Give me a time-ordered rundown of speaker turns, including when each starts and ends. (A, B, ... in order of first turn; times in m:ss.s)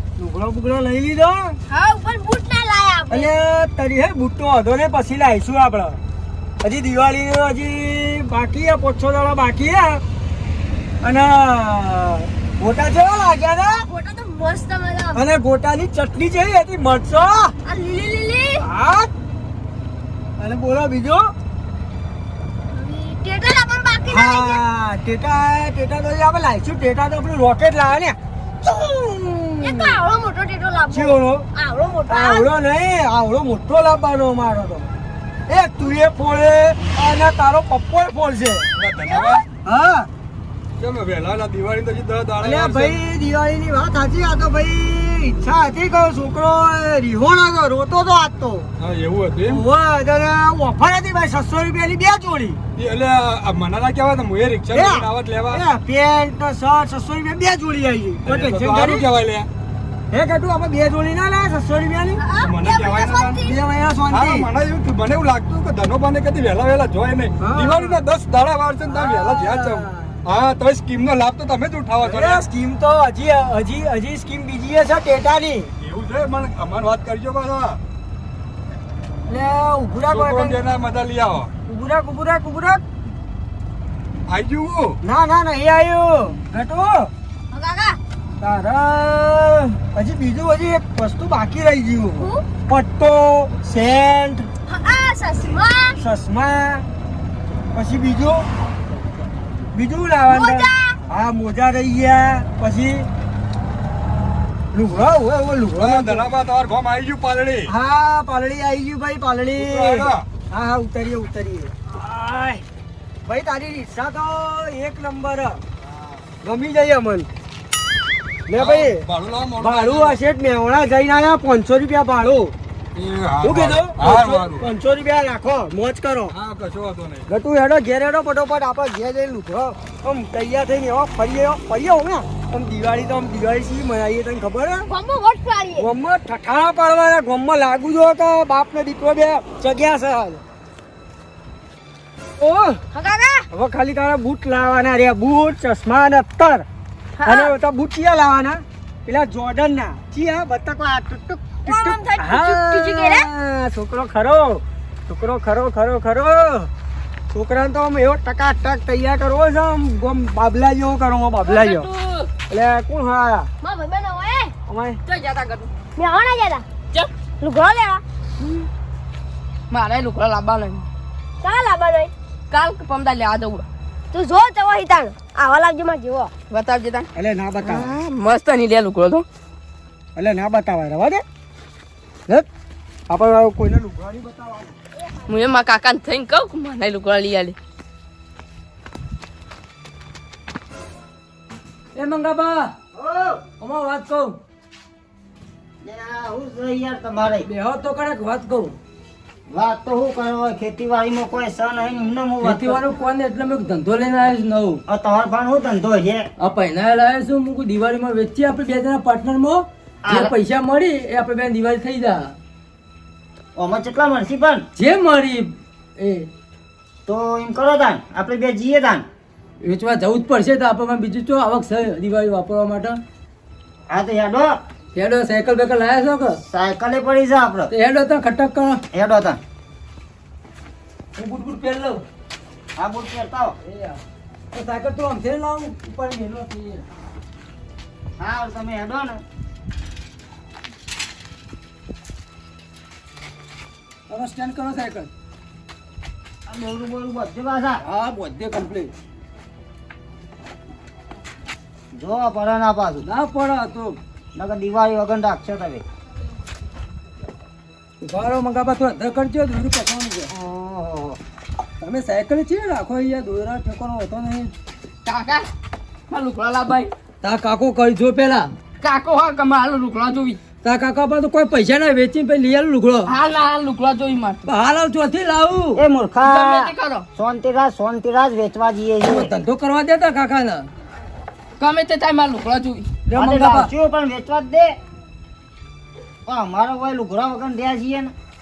0:00.2-0:01.6 A
0:01.7-0:03.3 B
0:03.1-0:06.0 A
0:06.6-0:10.0 A
0:11.0-0:13.9 A
0:13.9-0:15.2 B
0:15.1-0:17.5 A
0:17.6-0:18.7 B
0:18.6-0:19.1 A
0:20.4-0:21.3 A
0:22.7-0:24.6 B
0:24.0-0:30.0 A
0:29.5-0:32.5 B
0:30.9-0:31.4 A
0:32.1-0:34.9 A
0:35.5-0:38.7 A
0:38.7-0:39.4 C
0:39.0-0:39.4 B
0:39.6-0:40.1 A
0:40.8-0:43.0 C
0:42.4-0:48.7 A
0:48.8-0:49.6 C
0:49.4-0:52.6 A
0:52.8-0:55.6 C
0:54.7-0:59.1 A
0:58.2-0:59.5 C
1:00.1-1:02.2 A
1:02.2-1:03.6 B
1:02.4-1:03.5 C
1:03.4-1:04.5 A
1:04.1-1:12.4 C
1:07.4-1:08.0 A
1:08.8-1:10.2 A
1:12.0-1:15.7 A
1:15.8-1:17.8 C
1:19.3-1:20.6 A
1:20.1-1:21.5 C
1:21.7-1:22.8 A
1:24.3-1:25.0 C
1:25.0-1:27.1 A
1:27.5-1:28.0 B
1:28.4-1:34.5 A
1:32.2-1:32.4 B
1:34.7-1:36.0 B
1:36.0-1:36.8 A
1:37.7-1:38.5 A
1:39.7-1:43.1 A
1:40.3-1:41.0 B
1:44.7-1:46.3 A
1:45.8-1:47.7 C
1:47.7-1:52.6 A
1:49.6-1:50.2 C
1:53.2-1:55.6 A
1:56.4-1:57.3 A
1:58.5-2:02.5 A
1:58.6-2:00.2 C
2:03.0-2:04.7 C
2:03.4-2:06.3 A
2:06.3-2:07.3 C
2:07.3-2:14.9 A
2:14.9-2:15.9 B
2:15.8-2:20.4 A
2:22.4-2:22.8 A
2:22.9-2:23.5 B
2:23.5-2:26.6 A
2:27.2-2:27.5 B
2:27.2-2:36.7 A
2:31.6-2:33.3 B
2:37.3-2:41.9 A
2:41.4-2:42.3 D
2:42.5-2:43.5 A
2:43.6-2:44.5 B
2:44.7-2:45.0 A
2:45.1-2:45.7 D
2:45.9-2:46.6 B
2:47.4-2:48.0 B
2:48.4-2:48.7 D
2:49.7-2:50.9 D
2:51.4-2:52.1 B
2:52.5-2:53.7 D
2:54.1-2:56.4 B
2:56.5-2:57.1 D
2:57.1-2:57.9 A
2:57.6-2:59.2 D
3:00.2-3:01.2 A
3:03.1-3:04.8 A
3:05.3-3:07.6 D
3:11.9-3:12.7 E
3:12.9-3:13.4 F
3:13.6-3:14.4 E
3:15.8-3:17.5 F
3:17.4-3:18.8 E
3:19.5-3:22.8 F
3:22.4-3:24.8 E
3:24.9-3:26.2 F
3:26.4-3:32.3 E
3:30.0-3:30.3 F
3:33.6-3:34.6 F
3:34.8-3:36.3 E
3:37.1-3:39.0 F
3:39.6-3:43.0 E
3:43.9-3:44.6 F
3:44.9-3:46.4 E
3:46.3-3:47.7 F
3:47.7-3:48.8 E
3:48.9-3:49.4 F
3:51.2-3:52.0 E
3:52.8-3:53.5 F
3:53.6-3:54.0 E
3:54.5-3:56.8 E
3:58.2-3:59.2 F
4:04.1-4:05.1 E
4:06.5-4:07.8 F
4:07.8-4:08.9 E
4:11.9-4:13.1 F
4:13.0-4:14.0 E
4:14.4-4:15.8 F
4:18.0-4:20.3 E
4:20.3-4:21.2 F
4:21.8-4:24.5 E
4:25.0-4:25.5 D
4:26.1-4:26.9 D
4:27.2-4:28.5 E
4:28.8-4:30.4 D
4:30.6-4:33.1 E
4:33.1-4:34.4 D
4:34.5-4:35.8 E
4:35.8-4:39.3 F
4:36.2-4:37.1 D
4:39.0-4:40.7 E
4:41.6-4:42.9 D
4:43.1-4:43.7 E
4:43.2-4:44.7 F
4:46.3-4:48.1 F